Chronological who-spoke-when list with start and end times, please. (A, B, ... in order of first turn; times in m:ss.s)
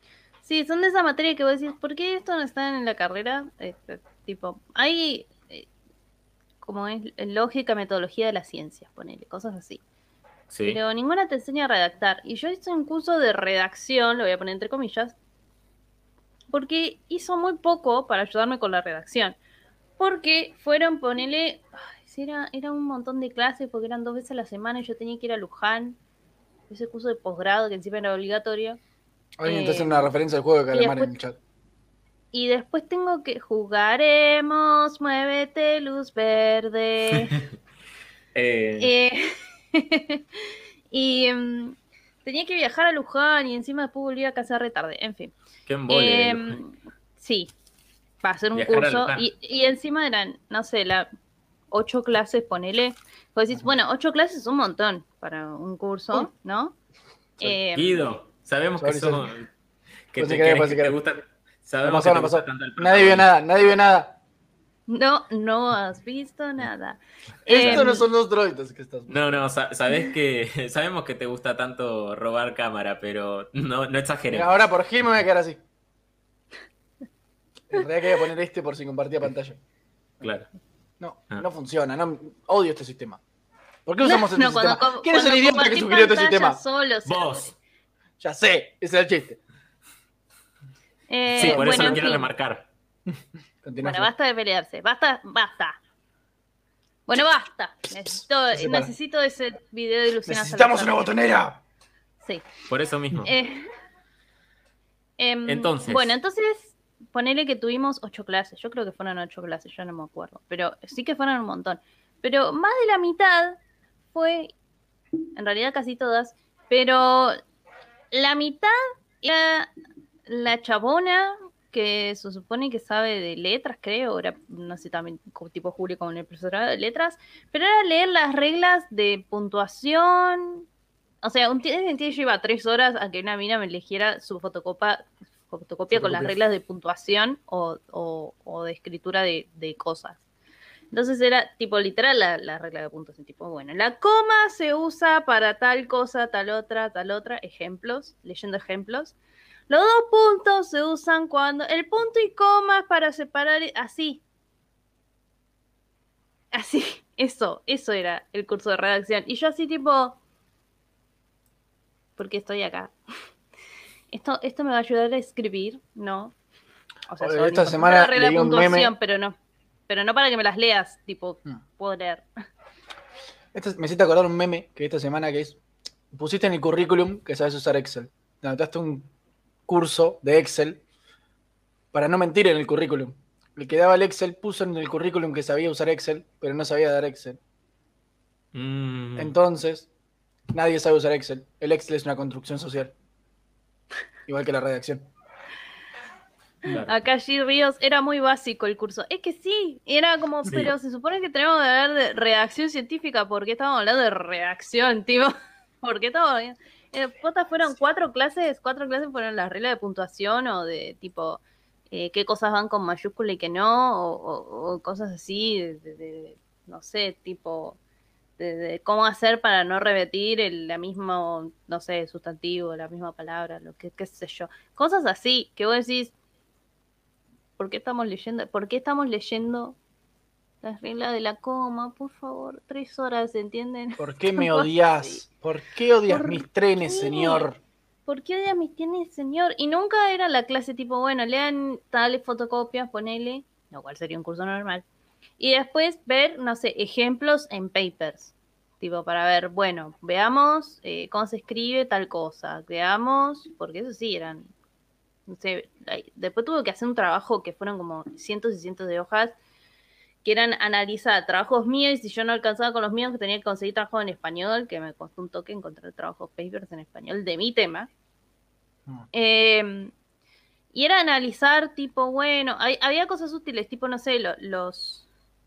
0:00.4-0:05.7 A
0:06.6-0:09.8 A
0:10.5-0:10.8 B
0:10.6-0:15.1 A
0:16.5-0:19.4 A
0:20.0-0:26.0 A
0:26.7-0:28.8 A
0:29.4-0:31.4 C
0:29.4-0:30.1 A
0:30.7-0:31.1 A
0:32.3-0:37.4 A
0:38.3-0:38.9 B
0:38.8-0:45.3 A
0:45.7-0:46.6 B
0:45.9-0:47.5 A
0:48.2-0:51.1 A
0:48.6-0:49.3 B
0:51.7-0:56.8 A
0:57.4-0:58.0 A
0:57.5-0:59.5 B
0:58.8-0:59.3 C
1:00.1-1:03.3 B
1:00.2-1:01.0 C
1:01.8-1:04.2 C
1:04.9-1:08.0 A
1:07.5-1:09.4 C
1:07.6-1:07.9 B
1:09.1-1:14.5 B
1:14.3-1:15.6 C
1:17.7-1:19.6 C
1:20.2-1:20.5 B
1:21.0-1:23.2 C
1:23.9-1:26.6 C
1:24.0-1:27.5 A
1:27.0-1:27.5 B
1:28.2-1:29.4 C
1:31.1-1:32.3 A
1:31.3-1:32.7 B
1:31.4-1:32.2 C
1:33.6-1:34.1 C
1:33.8-1:35.8 A
1:37.1-1:41.1 A
1:38.5-1:38.9 C
1:40.3-1:41.6 C
1:42.7-1:43.3 B
1:43.2-1:43.7 A
1:45.2-1:53.6 A
1:45.5-1:46.1 B
1:54.1-1:54.5 A
1:55.4-1:57.4 A
1:58.1-1:59.7 A
2:00.3-2:10.6 A
2:11.2-2:20.2 A
2:15.9-2:16.3 C
2:20.9-2:29.2 A
2:29.7-2:34.2 A
2:36.5-2:40.2 A
2:42.2-2:42.9 A
2:44.1-2:46.4 A
2:47.1-2:49.4 A
2:47.2-2:48.9 C
2:49.9-2:52.3 A
2:53.5-2:55.6 C
2:56.1-2:59.1 C
2:59.7-3:00.8 C
3:01.9-3:07.4 C
3:08.5-3:09.4 B
3:09.2-3:09.9 C
3:10.5-3:13.0 C
3:14.3-3:15.1 C
3:16.7-3:16.9 B
3:16.7-3:37.8 A
3:20.4-3:20.7 B
3:38.4-3:46.1 A
3:47.6-3:49.8 A
3:50.6-3:55.2 A
3:54.0-3:57.6 C
3:56.1-3:57.5 A
3:58.1-4:04.8 A
4:05.4-4:14.5 A
4:15.3-4:19.4 A
4:20.2-4:27.9 A
4:29.1-4:29.9 A
4:30.7-4:35.1 A